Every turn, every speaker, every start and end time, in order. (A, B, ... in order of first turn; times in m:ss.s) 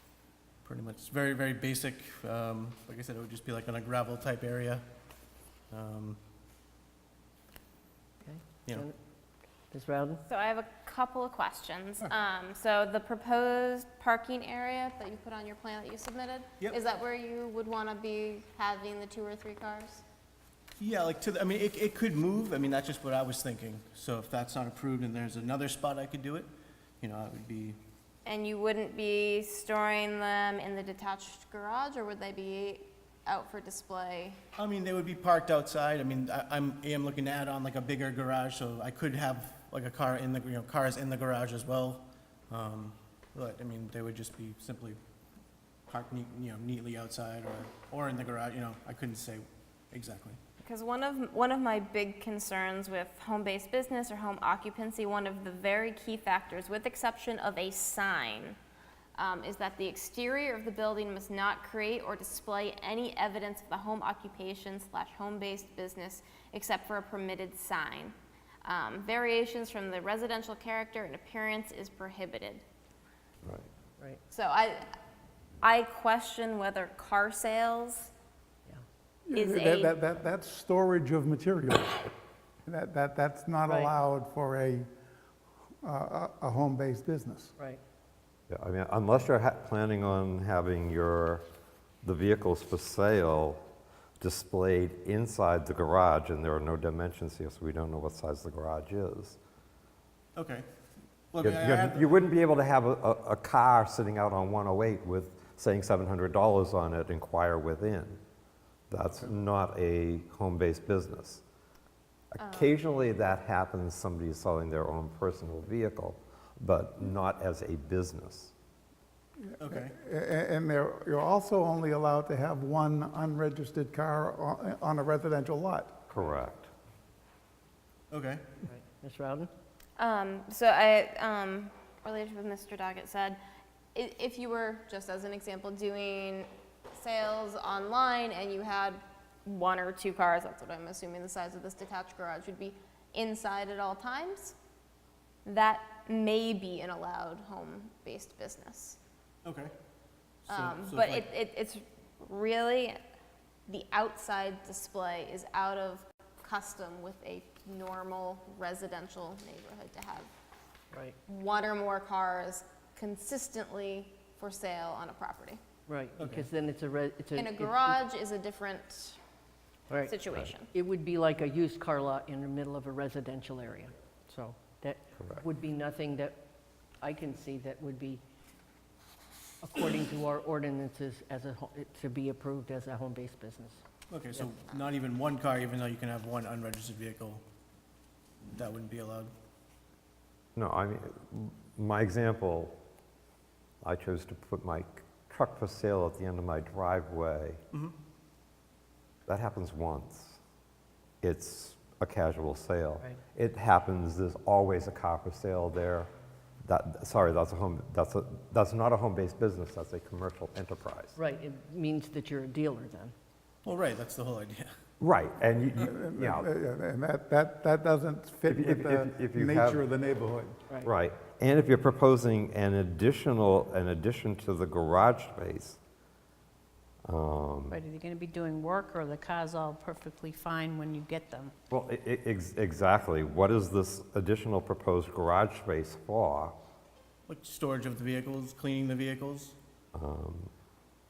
0:00.6-0:04.8 A
0:05.7-0:06.2 A
0:08.2-0:09.0 B
0:09.7-0:10.2 B
0:10.3-0:20.0 C
0:20.8-0:27.8 A
0:28.2-0:34.4 C
0:34.6-0:45.0 A
0:45.9-0:50.4 A
0:50.6-0:58.6 C
0:59.2-1:12.6 C
1:14.3-1:14.9 C
1:15.6-1:18.1 C
1:19.3-1:22.1 D
1:19.3-1:20.0 C
1:22.7-1:24.9 D
1:23.7-1:23.9 B
1:25.8-1:27.6 D
1:28.5-1:31.4 E
1:32.0-1:33.6 E
1:34.2-1:39.4 E
1:40.4-1:40.7 A
1:41.3-1:42.2 A
1:41.4-1:48.2 E
1:48.9-1:51.4 E
1:52.3-1:58.5 E
1:52.4-1:52.8 C
1:59.6-2:00.0 A
1:59.7-2:06.0 D
2:06.1-2:06.7 E
2:08.1-2:08.4 A
2:08.7-2:09.5 B
2:10.0-2:13.4 C
2:13.9-2:24.6 C
2:25.4-2:29.0 C
2:29.4-2:29.7 A
2:30.5-2:31.3 A
2:30.5-2:33.0 C
2:33.7-2:40.3 C
2:41.3-2:45.6 C
2:45.9-2:48.0 B
2:46.2-2:46.5 A
2:47.4-2:49.2 C
2:49.9-2:50.2 B
2:50.0-2:50.7 C
2:50.7-2:56.4 B
2:57.0-2:58.2 B
2:59.6-3:03.8 B
3:04.1-3:07.4 A
3:08.5-3:09.3 A
3:10.6-3:12.8 E
3:13.8-3:17.6 E
3:19.3-3:20.4 E
3:21.2-3:26.1 E
3:26.6-3:31.2 E
3:31.2-3:33.1 B
3:33.6-3:34.7 A
3:35.0-3:36.5 E
3:35.8-3:40.6 D
3:38.5-3:39.8 E
3:40.8-3:45.8 E
3:47.1-3:47.8 E
3:47.7-3:51.5 F
3:51.7-3:56.6 E
3:57.3-3:59.6 A
3:59.9-4:00.5 E